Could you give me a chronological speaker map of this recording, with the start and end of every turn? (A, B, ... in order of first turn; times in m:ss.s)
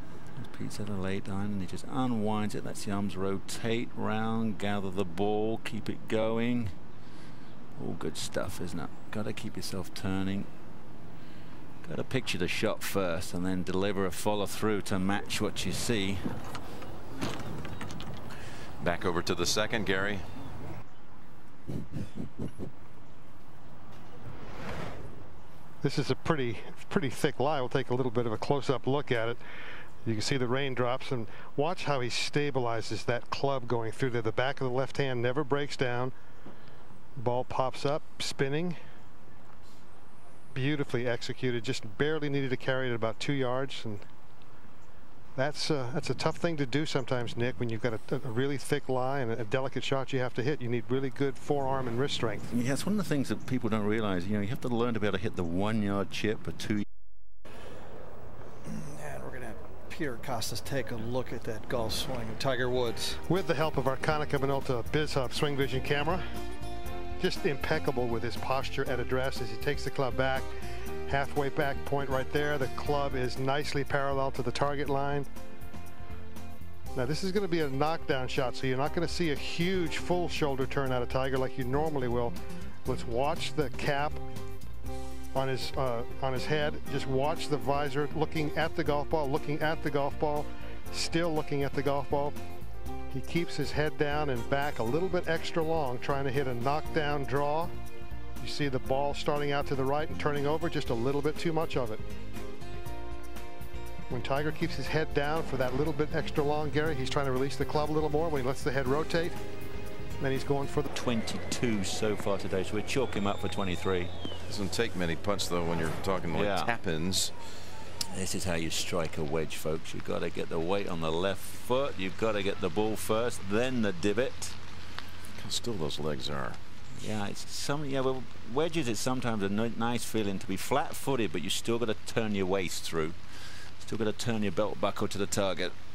0:00.4-0:06.7 A
0:07.8-0:10.5 A
0:11.8-0:16.4 A
0:18.8-0:20.3 B
0:25.8-0:29.4 C
0:30.0-0:36.1 C
0:37.2-0:38.8 C
0:40.5-0:44.0 C
0:45.4-0:52.5 C
0:52.5-0:56.8 A
0:58.7-1:03.2 D
1:03.2-1:06.2 C
1:07.2-1:10.5 C
1:11.1-1:15.3 C
1:17.0-1:22.3 C
1:22.9-1:24.2 C
1:25.3-1:32.4 C
1:33.1-1:37.7 C
1:38.4-1:42.0 C
1:44.1-1:49.4 C
1:50.2-1:50.9 C
1:50.9-1:54.1 A
1:54.5-1:57.3 B
1:56.3-1:56.8 A
1:58.1-2:04.6 A
2:05.4-2:06.6 B
2:06.9-2:15.7 A